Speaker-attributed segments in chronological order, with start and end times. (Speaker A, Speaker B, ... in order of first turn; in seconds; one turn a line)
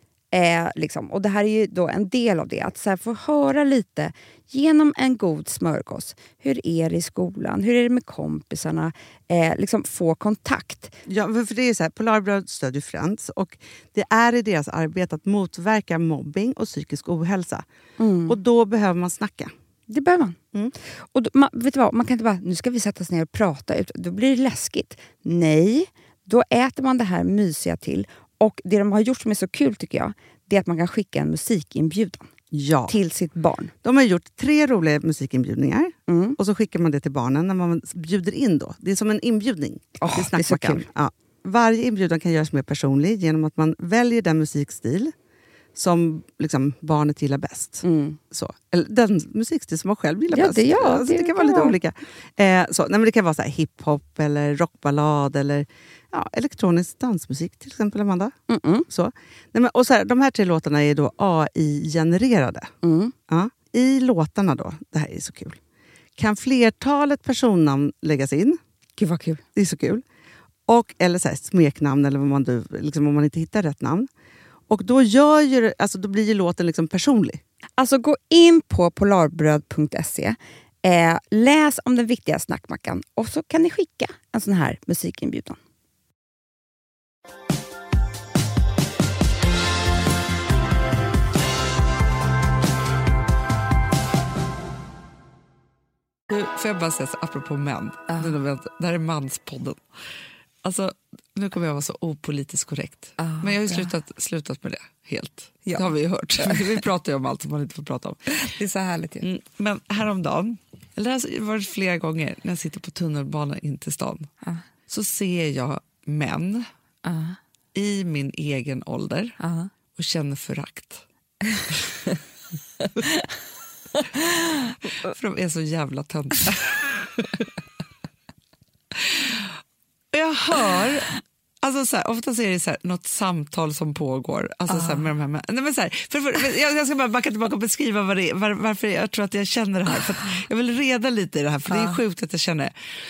Speaker A: 0.3-10.9
Speaker B: 11.1-17.6
Speaker A: 18.0-18.4
Speaker B: 18.3-19.5
Speaker A: 19.9-20.4
Speaker A: 21.1-32.3
Speaker B: 32.5-32.9
Speaker A: 32.9-33.7
Speaker B: 33.8-45.1
Speaker A: 36.1-36.4
Speaker A: 40.0-40.8
Speaker B: 45.8-58.4
Speaker A: 47.8-48.2
Speaker A: 50.3-51.7
Speaker A: 58.5-58.9
Speaker B: 58.9-62.7
Speaker A: 62.8-63.1
Speaker B: 63.3-65.6
Speaker B: 66.2-68.6
Speaker A: 69.0-69.4
Speaker B: 69.5-70.0
Speaker B: 70.7-74.1
Speaker B: 74.7-77.4
Speaker A: 77.8-85.6
Speaker C: 96.3-99.8
Speaker C: 100.6-108.3
Speaker D: 103.2-103.9
Speaker D: 106.4-106.8
Speaker D: 108.3-109.2
Speaker C: 109.2-114.3
Speaker C: 114.9-116.7
Speaker D: 117.0-117.3
Speaker C: 117.7-119.4
Speaker D: 119.4-119.7
Speaker C: 119.9-121.0
Speaker C: 125.0-127.4
Speaker C: 129.1-129.5
Speaker C: 130.1-142.7
Speaker D: 134.7-135.1
Speaker D: 141.7-142.0